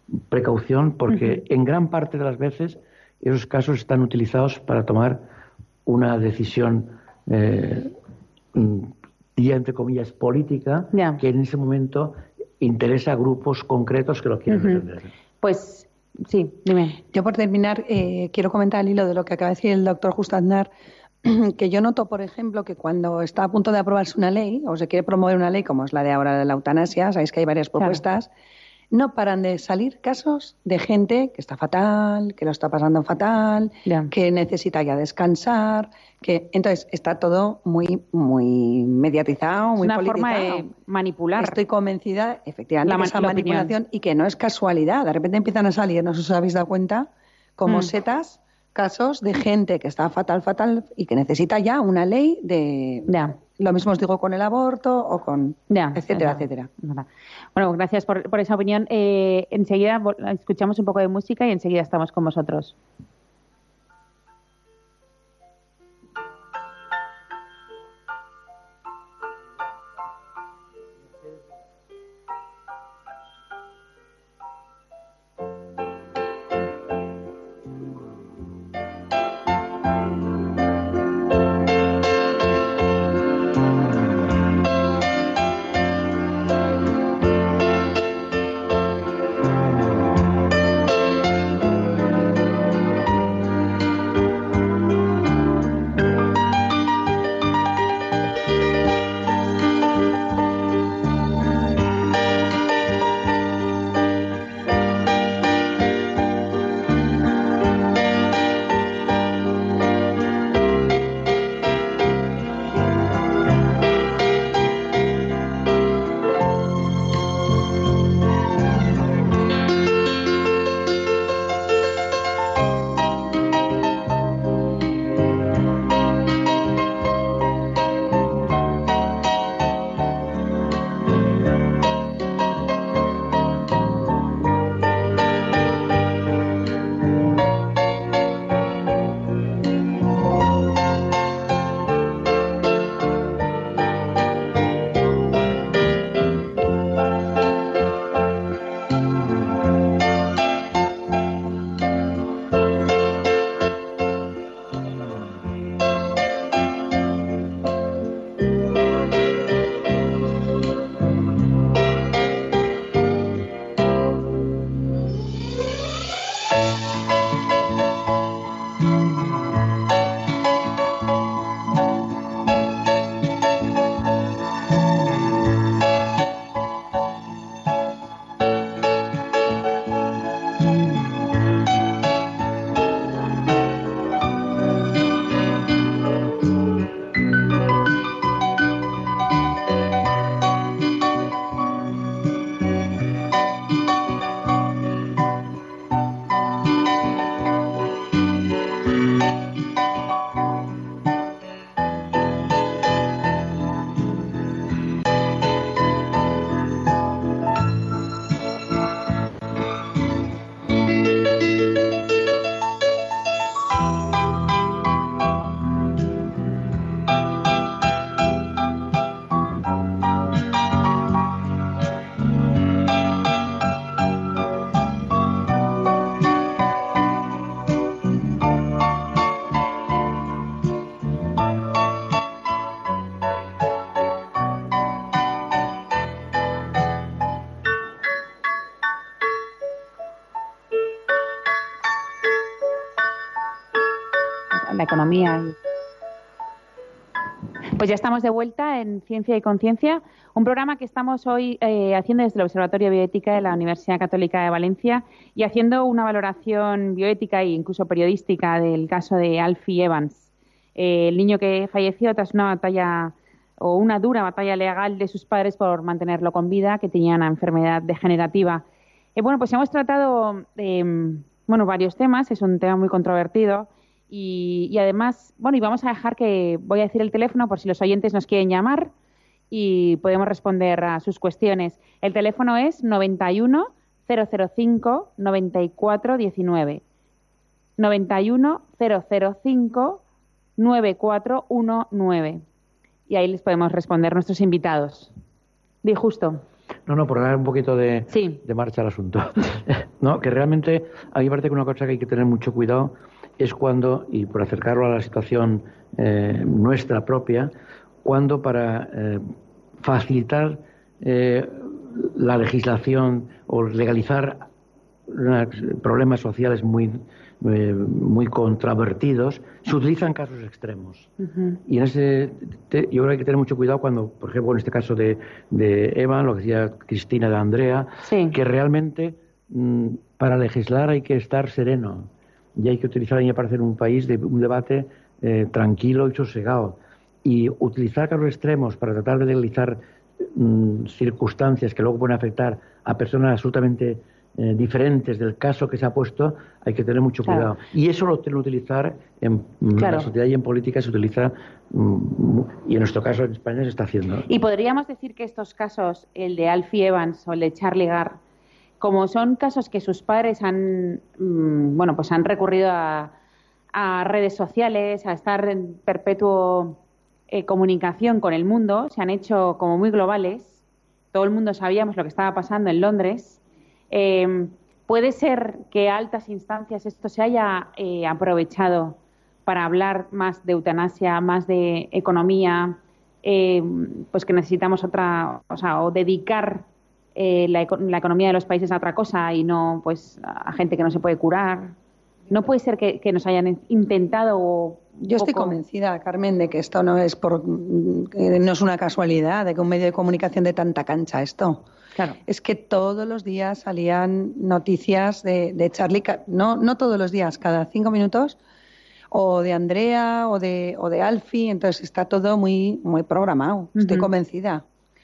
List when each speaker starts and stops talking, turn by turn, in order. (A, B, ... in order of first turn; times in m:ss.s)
0:00.3-0:05.2 A
0:01.1-0:01.4 B
0:05.9-0:07.9 A
0:08.5-0:15.1 A
0:10.9-0:11.2 B
0:14.5-0:14.8 B
0:15.4-0:17.0 B
0:17.1-0:20.7 C
0:21.2-0:28.3 C
0:28.9-0:40.7 C
0:33.9-0:34.1 B
0:39.8-0:41.6 B
0:41.4-0:56.7 C
0:42.8-0:43.7 B
0:53.1-0:53.4 B
0:55.7-1:02.8 B
4:04.5-4:05.6 B
4:07.8-4:28.6 B
4:29.2-4:38.9 B
4:39.5-4:46.8 B
4:47.8-4:50.0 B
4:50.6-4:52.4 B
4:53.1-4:55.1 B
4:55.8-4:56.4 B
4:56.9-5:07.5 A
4:58.1-4:58.4 B
5:08.0-5:09.2 A
5:09.8-5:14.5 A
5:15.1-5:21.1 A
5:21.2-5:21.6 B
5:21.7-5:54.3 A
5:28.0-5:28.4 B
5:49.8-5:50.1 B
5:54.3-5:58.2 B
5:58.8-6:03.1 B
6:03.7-6:10.6 B
6:11.1-6:31.8 B
6:32.3-6:35.6 B
6:35.0-6:41.6 C
6:42.3-6:48.4 C
6:49.1-6:54.6 C
6:53.8-6:54.1 B